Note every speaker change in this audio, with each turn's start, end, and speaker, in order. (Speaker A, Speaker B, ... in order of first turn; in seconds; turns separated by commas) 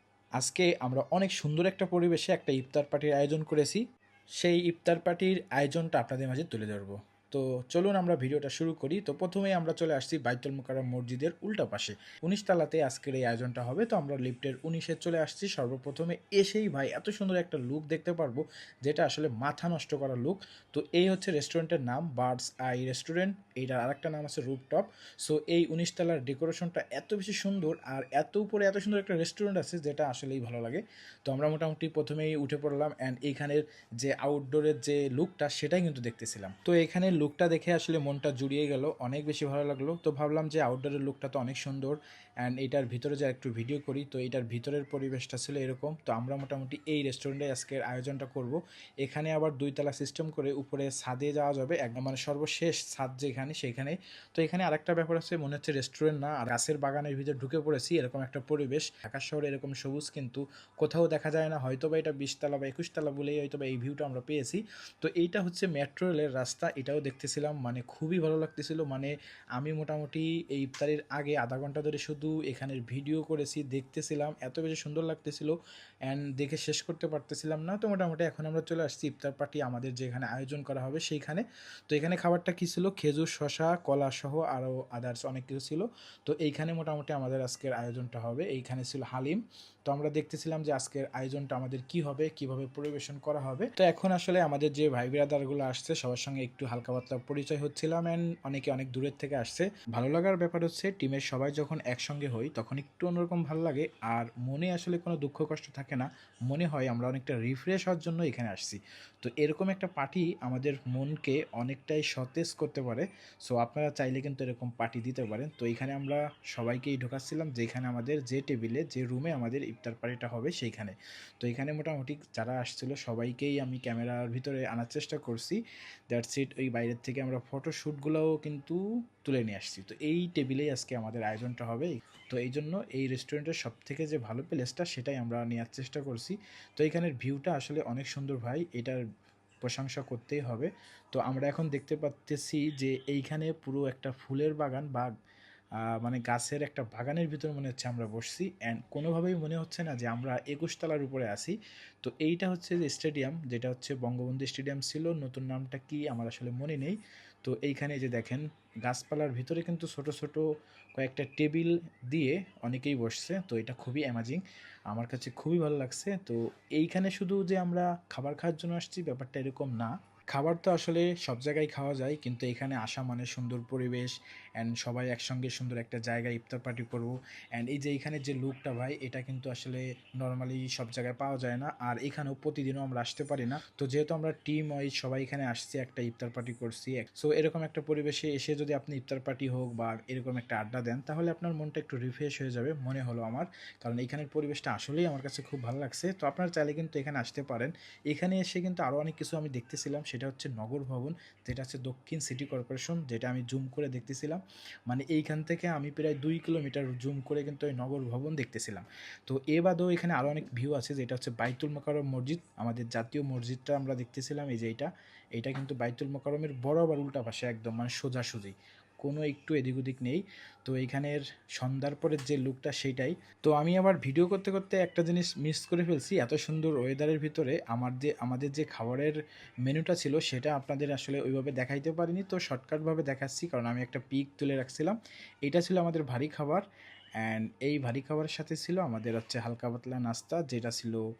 Speaker A: 0.4-3.8, Speaker A: 4.4-75.5, Speaker A: 76.1-125.6, Speaker A: 126.1-139.0, Speaker A: 139.6-145.1, Speaker A: 146.0-160.4, Speaker A: 161.0-236.6, Speaker A: 237.2-241.0